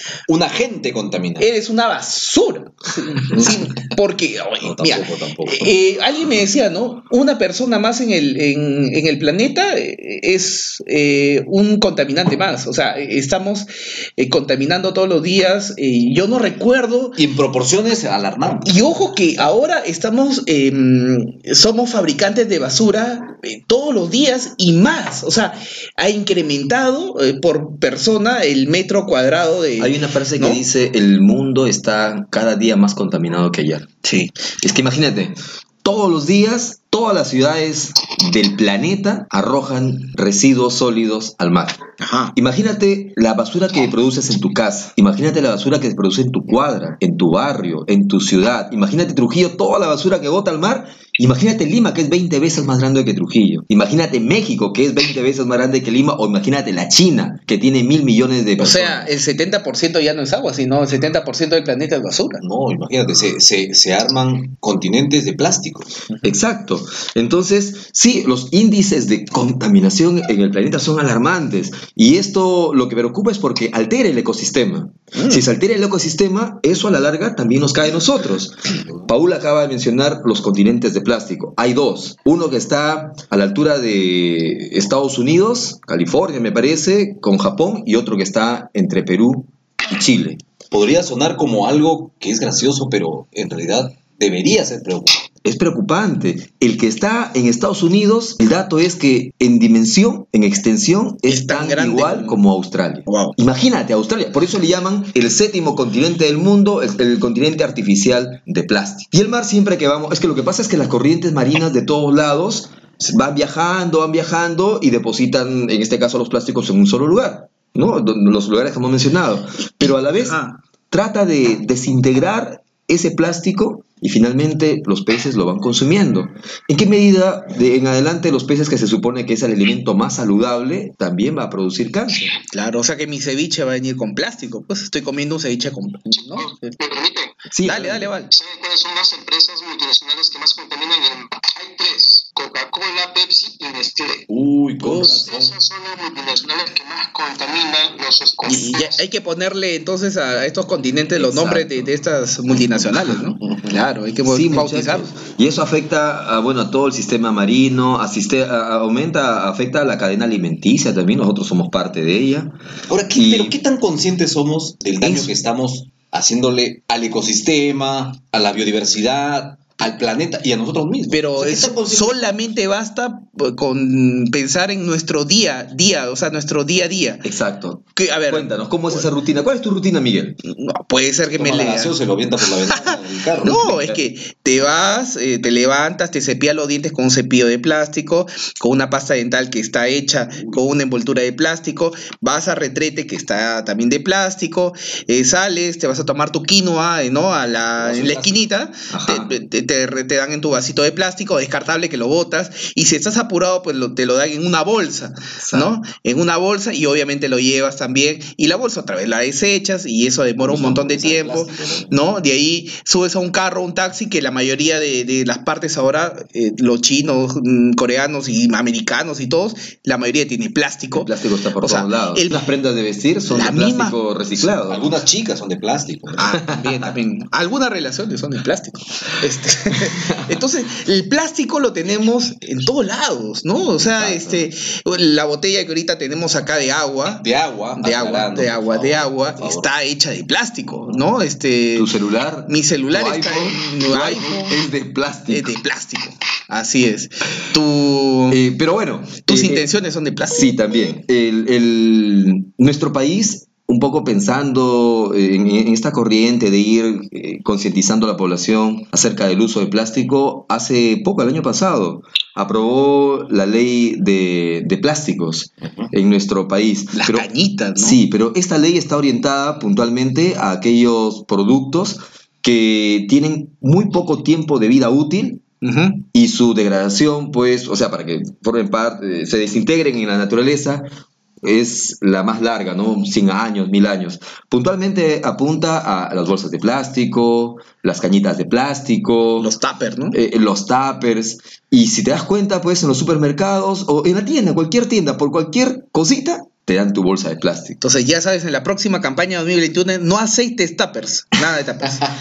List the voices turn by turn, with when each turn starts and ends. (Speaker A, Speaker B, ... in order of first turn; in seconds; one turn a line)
Speaker A: 0.3-1.5
Speaker B: 1.4-17.2
Speaker A: 3.3-3.9
Speaker A: 4.6-5.7
Speaker A: 17.2-18.8
Speaker B: 18.6-30.6
Speaker C: 29.8-33.9
Speaker B: 34.0-34.3
Speaker C: 34.5-41.8
Speaker B: 42.0-42.3
Speaker C: 42.4-59.1
Speaker B: 58.6-62.4
Speaker A: 62.4-65.9
Speaker C: 66.2-90.4
Speaker A: 78.8-79.1
Speaker A: 90.7-95.2
Speaker C: 95.4-132.3
Speaker B: 101.3-102.4
Speaker B: 103.1-103.3
Speaker B: 119.8-120.6
Speaker B: 132.5-136.5
Speaker D: 136.1-137.4
Speaker C: 137.5-138.2
Speaker B: 137.6-138.3
Speaker D: 138.3-144.3
Speaker A: 144.3-145.5
Speaker D: 144.9-149.0
Speaker B: 148.5-155.1
Speaker A: 151.2-151.9
Speaker C: 154.2-162.5
Speaker A: 162.9-172.3
Speaker C: 163.1-163.6
Speaker C: 165.0-165.3
Speaker B: 171.1-177.2
Speaker C: 177.2-180.4
Speaker B: 178.0-179.1
Speaker B: 180.4-181.9
Speaker A: 181.3-183.6
Speaker B: 183.4-221.1
Speaker C: 183.4-184.0
Speaker A: 197.8-198.4
Speaker C: 198.9-199.3
Speaker C: 205.4-205.7
Speaker A: 210.4-212.0
Speaker C: 220.9-224.9
Speaker B: 221.6-222.5
Speaker B: 223.3-224.0
Speaker A: 224.4-226.4
Speaker B: 226.2-237.2
Speaker C: 233.8-234.5
Speaker A: 237.1-239.7
Speaker B: 237.8-241.9
Speaker C: 241.8-245.6
Speaker B: 242.5-244.6
Speaker B: 245.3-248.4
Speaker C: 248.3-249.7
Speaker B: 249.3-250.5
Speaker C: 250.3-275.4
Speaker A: 265.6-265.9
Speaker B: 266.9-268.0
Speaker B: 275.6-276.1
Speaker C: 276.1-280.9
Speaker C: 281.4-289.5
Speaker B: 289.4-290.2
Speaker C: 290.1-297.8
Speaker B: 297.8-302.1